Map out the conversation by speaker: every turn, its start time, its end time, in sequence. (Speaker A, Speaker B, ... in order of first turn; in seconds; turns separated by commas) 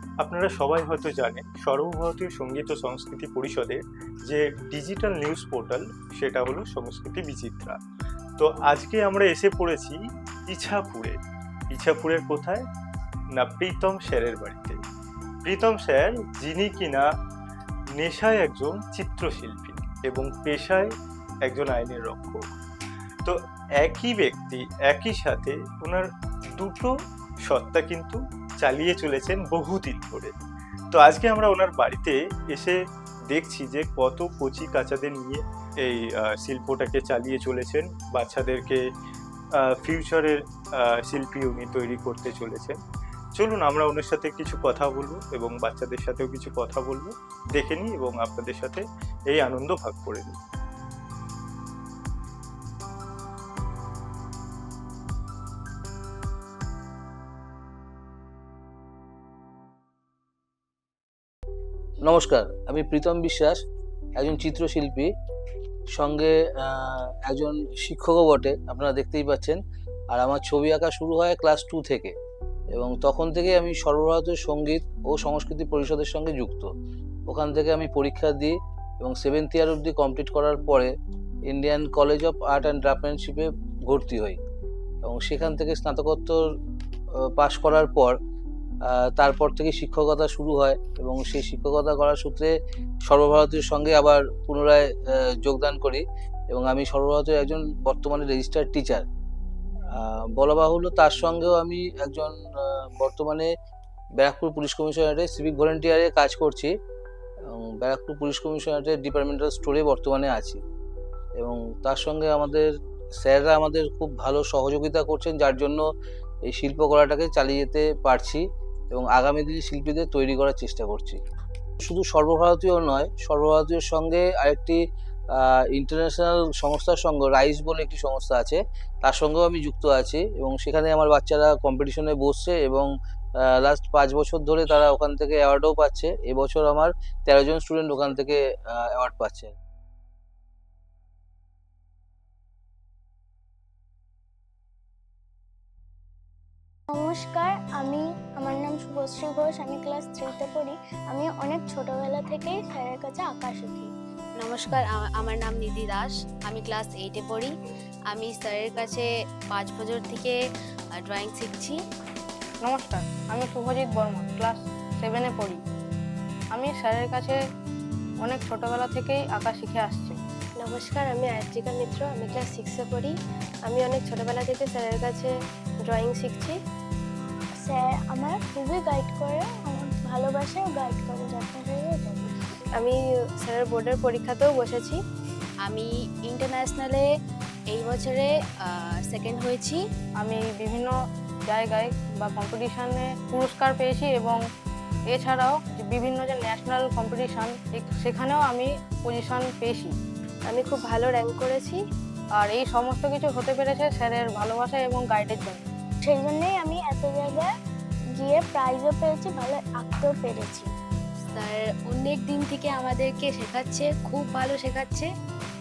Speaker A: 0.2-7.8, Speaker A: 8.4-10.0, Speaker A: 10.5-11.2, Speaker A: 11.7-12.6, Speaker A: 13.4-14.8, Speaker A: 15.4-17.1, Speaker A: 18.0-20.9, Speaker A: 21.4-22.4, Speaker A: 23.2-26.9, Speaker A: 27.5-30.3, Speaker A: 30.9-32.8, Speaker A: 33.3-38.8, Speaker A: 39.8-42.8, Speaker A: 43.4-50.4, Speaker B: 62.0-63.6, Speaker B: 64.2-65.1, Speaker B: 65.9-69.6, Speaker B: 70.1-72.1, Speaker B: 72.7-76.7, Speaker B: 77.3-80.9, Speaker B: 81.5-84.4, Speaker B: 85.0-86.4, Speaker B: 87.3-88.2, Speaker B: 88.9-92.5, Speaker B: 93.1-99.0, Speaker B: 99.9-103.5, Speaker B: 104.2-106.7, Speaker B: 107.5-110.6, Speaker B: 111.4-112.7, Speaker B: 113.2-115.8, Speaker B: 116.5-121.2, Speaker B: 121.8-124.8, Speaker B: 125.3-139.6, Speaker C: 146.9-153.9, Speaker D: 154.4-157.5, Speaker D: 158.1-160.4, Speaker D: 161.0-161.8, Speaker E: 162.6-165.6, Speaker E: 166.6-167.4, Speaker E: 168.2-170.2, Speaker F: 170.6-175.3, Speaker F: 175.9-176.6, Speaker C: 177.6-182.3, Speaker F: 182.8-185.0, Speaker D: 185.6-187.1, Speaker D: 187.7-189.8, Speaker E: 190.2-190.9, Speaker E: 191.5-194.4, Speaker E: 195.1-199.9, Speaker F: 200.5-201.8, Speaker E: 202.4-205.6, Speaker C: 206.0-207.5, Speaker C: 208.2-210.7, Speaker D: 211.3-215.1